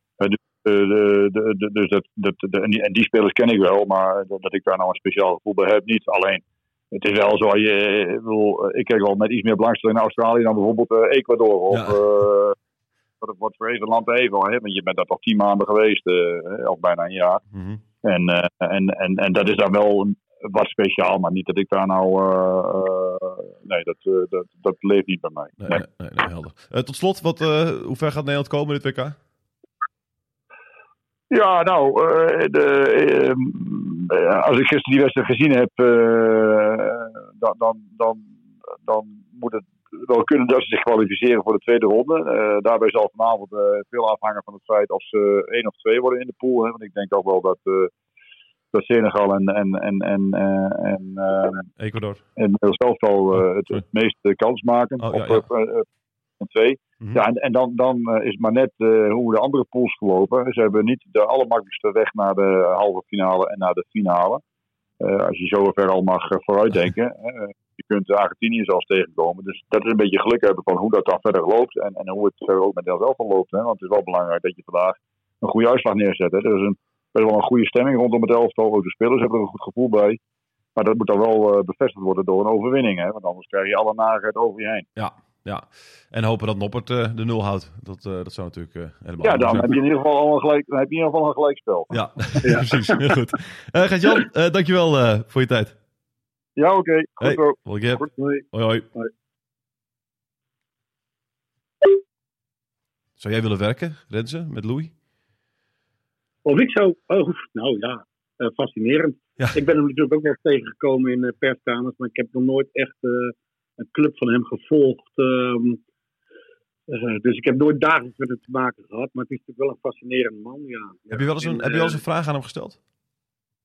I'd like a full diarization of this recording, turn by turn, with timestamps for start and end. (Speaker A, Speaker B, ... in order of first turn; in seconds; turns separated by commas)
Speaker A: 0.2-12.6, Speaker B: 11.7-12.0, Speaker A: 13.2-17.4, Speaker B: 17.5-17.8, Speaker A: 18.0-25.8, Speaker B: 25.6-29.2, Speaker A: 31.3-47.9, Speaker A: 48.7-51.7, Speaker B: 51.8-52.2, Speaker A: 52.4-55.9, Speaker B: 55.0-55.4, Speaker A: 56.4-64.4, Speaker A: 65.0-80.2, Speaker A: 80.8-84.9, Speaker B: 85.0-89.8, Speaker A: 89.2-91.9, Speaker B: 91.9-95.8, Speaker C: 92.4-93.0, Speaker A: 96.6-98.0, Speaker B: 97.2-98.9, Speaker C: 98.2-98.4, Speaker B: 103.2-104.9, Speaker C: 106.5-115.8, Speaker C: 116.9-122.0, Speaker B: 121.1-122.8